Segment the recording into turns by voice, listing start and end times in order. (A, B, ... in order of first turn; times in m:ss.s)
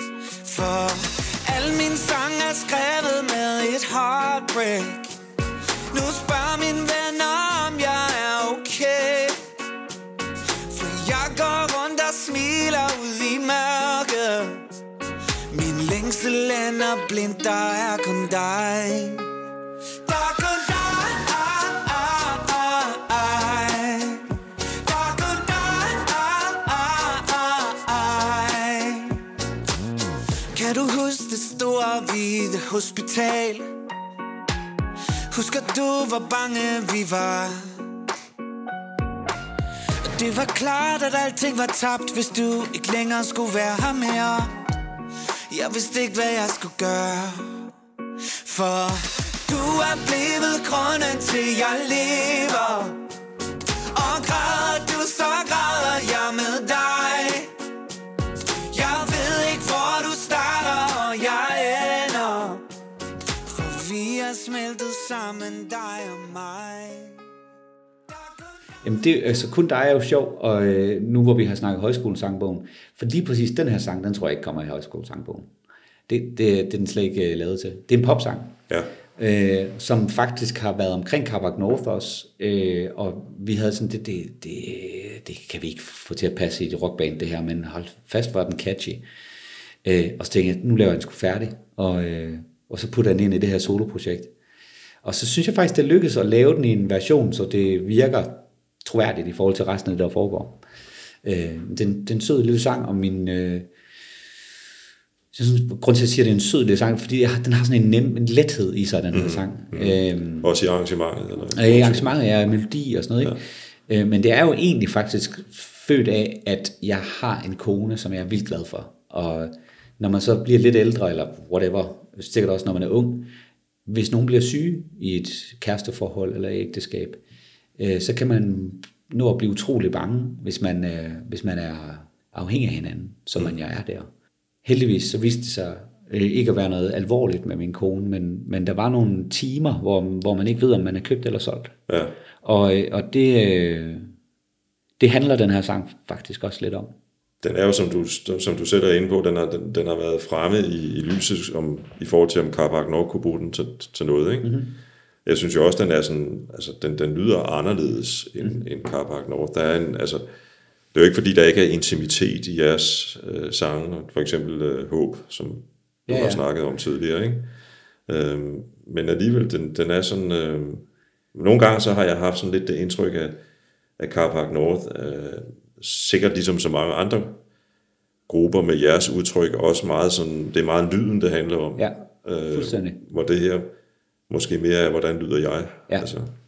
0:00.4-0:05.2 A
0:05.9-0:09.4 A
0:10.6-0:14.7 A
0:15.5-0:19.3 A
0:20.0-0:29.2 A
0:30.5-0:33.7 A
0:35.3-0:37.8 A
0:40.0-0:44.6 A
0:45.5-0:47.7 A
0:48.3-0:53.0 A
0:53.8-0:57.5 A
0:58.6-1:02.6 A
1:03.4-1:07.2 A
1:08.1-1:08.4 A
1:08.8-1:15.5 B
1:16.1-1:18.6 B
1:19.2-1:29.0 B
1:29.8-1:34.3 B
1:35.0-1:40.6 B
1:41.2-1:43.7 B
1:45.3-1:50.5 B
1:49.1-1:52.2 C
1:51.5-2:03.3 B
2:03.9-2:07.2 B
2:07.8-2:14.1 B
2:14.6-2:21.8 B
2:21.9-2:22.1 C
2:22.4-2:24.1 B
2:25.0-2:26.9 B
2:27.4-2:34.6 C
2:34.4-2:34.7 B
2:35.2-2:40.2 C
2:40.9-2:47.5 C
2:46.1-2:46.4 B
2:48.1-2:53.4 C
2:54.0-2:57.4 C
2:58.3-3:03.7 C
3:01.8-3:03.0 B
3:04.3-3:06.3 C